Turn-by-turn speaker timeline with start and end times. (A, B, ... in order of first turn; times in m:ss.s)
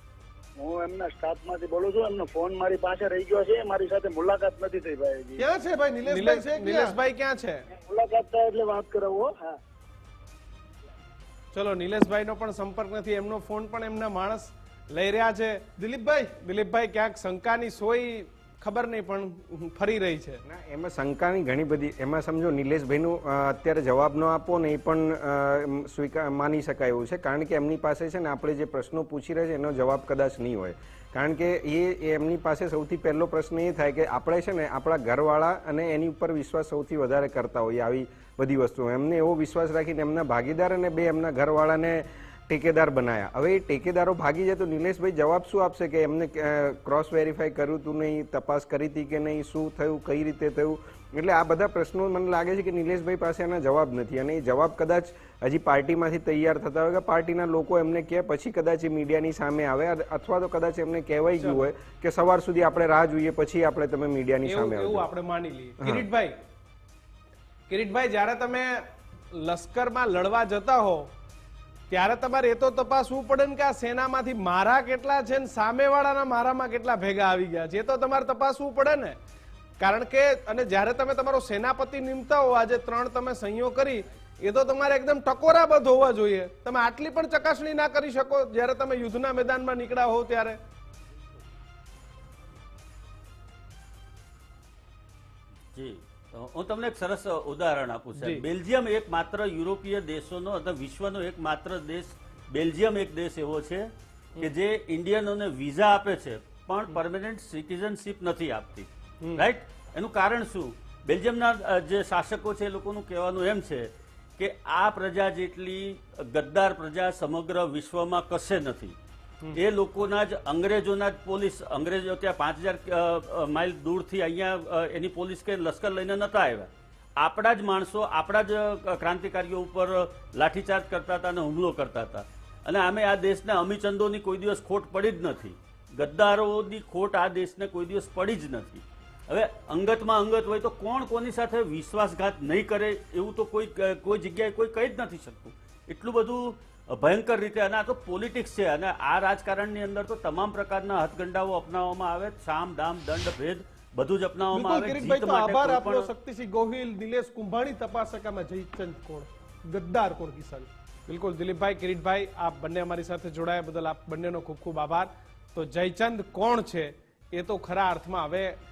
0:00.6-0:05.4 A
0:05.4-0:06.9 B
0:06.0-0:07.6 C
0:07.7-0:09.6 A
0:11.5-0:15.6 C
0:15.8-0:16.3 B
0:16.4-0:20.4 C
0:20.4-1:05.1 D
1:04.4-1:06.4 C
1:05.8-1:06.0 D
1:07.7-1:11.1 C
1:11.9-1:19.2 C
1:19.8-1:30.6 C
1:35.7-1:43.9 E
1:38.2-1:38.4 C
1:44.4-1:59.0 E
1:49.2-1:49.5 C
1:59.5-2:36.1 E
2:34.5-2:40.7 B
2:41.1-2:48.6 C